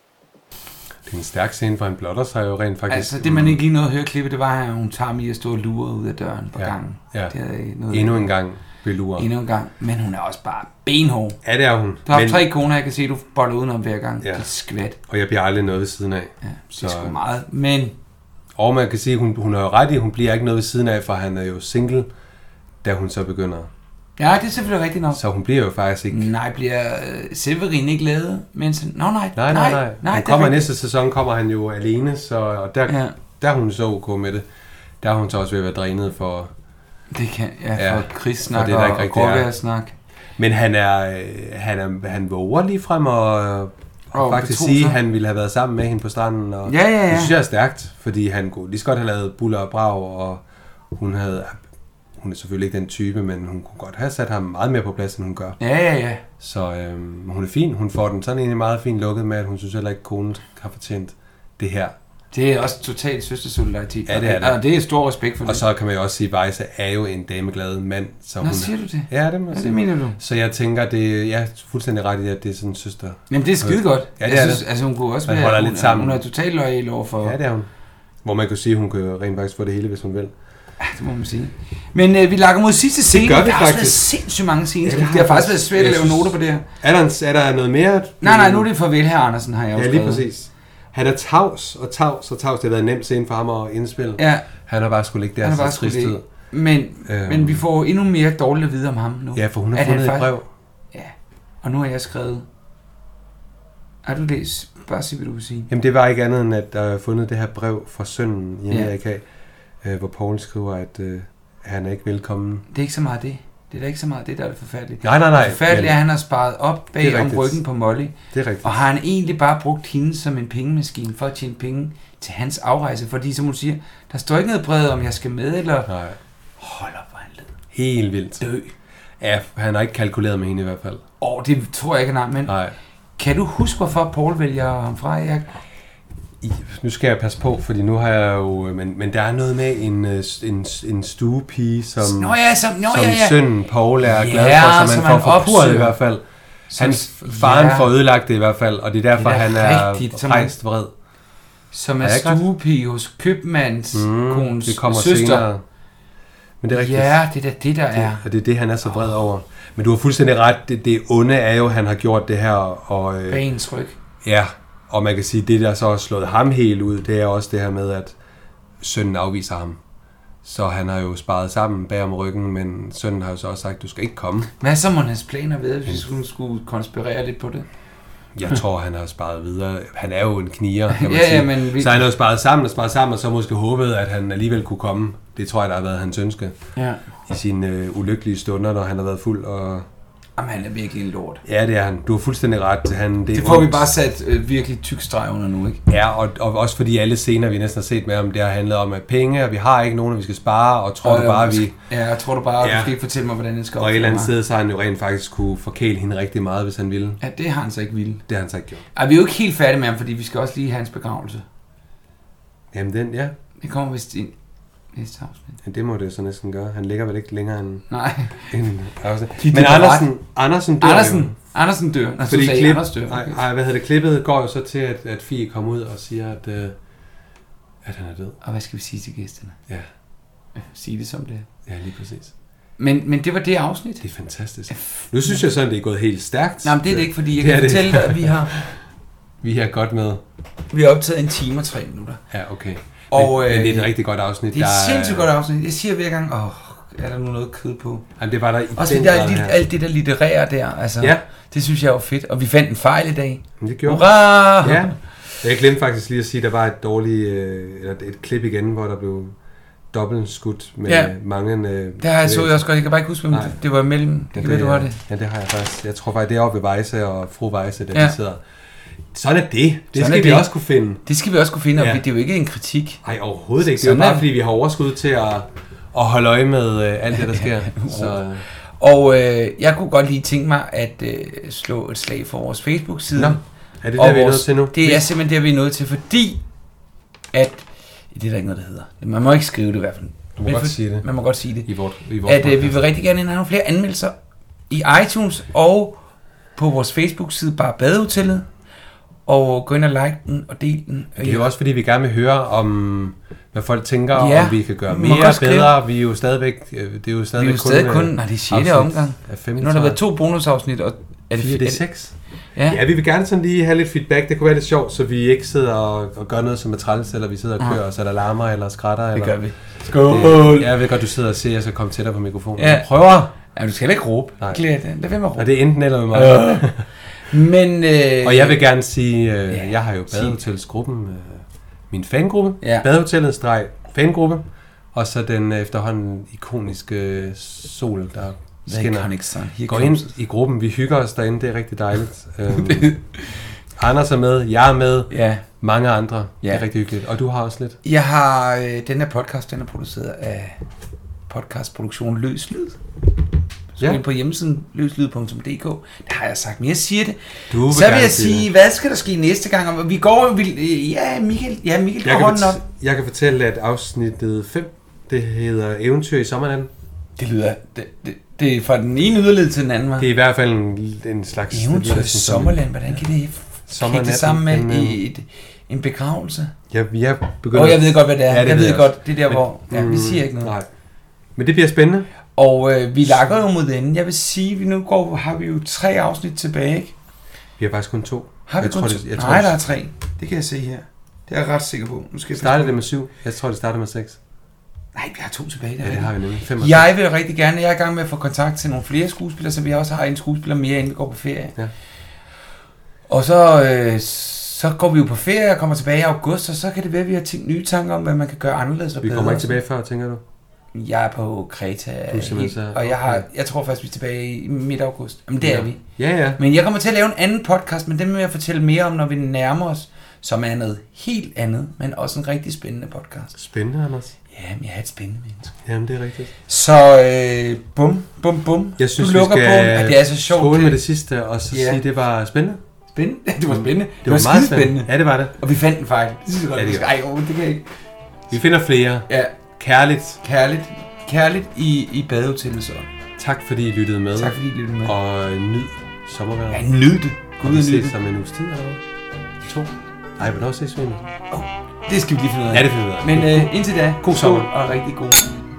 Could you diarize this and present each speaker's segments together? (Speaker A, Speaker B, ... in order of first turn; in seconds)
Speaker A: 1.1-3.6, 6.5-7.3, 7.9-9.3, 11.4-12.4, 15.1-17.1, 18.6-22.1, 22.8-23.7, 25.1-26.3, 29.4-34.5, 35.0-36.5, 37.8-39.5, 40.4-50.4, 50.9-51.6, 52.2-55.6, 56.4-62.0, 64.1-64.6, 65.5-74.7, 75.2-76.2, 77.2-77.7, 78.2-80.3, 83.1-84.1, 84.8-88.7, 89.8-96.2, 97.1-97.6, 99.3-100.5, 105.7-109.2, 109.8-112.7, 115.0-116.0, 117.0-117.6, 118.3-118.8, 125.9-126.2, 127.7-128.4, 129.2-131.0, 132.5-132.8, 136.4-150.9, 152.0-152.4, 153.9-155.6, 156.6-157.2, 157.9-163.4, 164.2-168.2, 168.8-169.8, 170.4-174.5, 178.4-186.6, 187.3-189.9, 191.4-193.8, 195.9-201.8, 202.6-202.9, 203.8-207.2, 208.3-208.8, 212.7-213.3, 215.6-217.8, 218.5-221.4, 222.2-226.8, 227.8-228.4, 231.7-232.3, 234.0-238.8, 239.4-240.2, 242.3-245.3, 248.2-249.6, 251.0-251.2, 253.6-259.4, 259.9-262.7, 263.3-263.6, 264.3-268.4, 269.1-271.0, 271.8-272.0, 273.0-278.5, 283.1-285.1, 290.4-291.1, 291.7-292.8, 301.2-310.0, 311.4-323.3, 325.3-326.9, 328.2-339.1, 339.7-342.9, 343.8-347.8, 357.5-358.5, 362.0-366.7, 370.0-373.0, 373.7-375.0, 376.7-380.7, 381.4-382.1, 387.6-389.6, 392.4-394.2, 395.8-396.9, 409.0-410.2, 412.1-413.2, 415.4-416.4, 423.4-424.1, 425.6-426.3, 428.8-432.6, 433.5-435.4, 436.6-436.9, 438.3-440.2, 443.2-446.7, 447.4-448.8, 449.4-451.0, 452.5-454.5
Speaker B: 2.9-8.3, 9.2-11.4, 12.1-15.0, 16.4-17.9, 24.2-25.2, 26.1-30.7, 32.9-33.2, 37.1-39.9, 44.1-45.0, 46.7-47.3, 55.6-56.2, 62.3-65.6, 68.4-70.2, 73.3-77.4, 80.8-86.6, 88.2-90.2, 94.2-94.5, 95.4-100.3, 100.9-102.5, 104.0-105.7, 112.7-125.9, 126.6-127.5, 128.4-128.7, 131.2-132.5, 133.2-135.5, 142.0-143.4, 144.0-146.0, 146.7-147.9, 149.2-150.5, 151.7-155.5, 156.7-158.2, 163.3-164.0, 174.6-177.7, 180.9-182.0, 186.8-187.0, 190.4-191.4, 193.3-195.8, 201.0-204.3, 207.2-208.2, 208.9-211.4, 213.6-214.3, 214.9-215.6, 217.9-218.5, 219.4-220.1, 220.8-223.4, 228.4-229.6, 230.6-231.5, 232.8-234.1, 234.7-235.4, 236.6-238.6, 240.7-242.2, 243.1-243.9, 244.5-248.1, 248.8-255.0, 260.9-261.1, 262.0-265.0, 269.9-270.5, 271.0-273.0, 273.6-274.3, 277.1-278.2, 278.8-283.4, 284.0-286.4, 287.3-291.7, 292.2-294.1, 294.7-296.0, 296.6-298.5, 299.3-301.5, 304.1-305.7, 307.4-311.9, 312.5-312.8, 319.1-320.7, 322.6-322.9, 323.4-325.6, 326.1-328.6, 329.5-330.4, 338.7-340.1, 342.5-343.4, 345.1-345.4, 347.8-350.6, 351.3-352.8, 353.8-362.6, 367.2-370.1, 371.5-376.5, 377.5-380.5, 382.4-386.9, 388.5-392.8, 394.9-401.6, 403.1-409.6, 410.7-415.8, 416.4-423.3, 424.3-425.5, 426.5-430.8, 431.5-431.8, 432.9-437.7, 439.1-439.3, 440.2-442.9, 444.2-444.9, 446.5-447.9, 451.3-455.3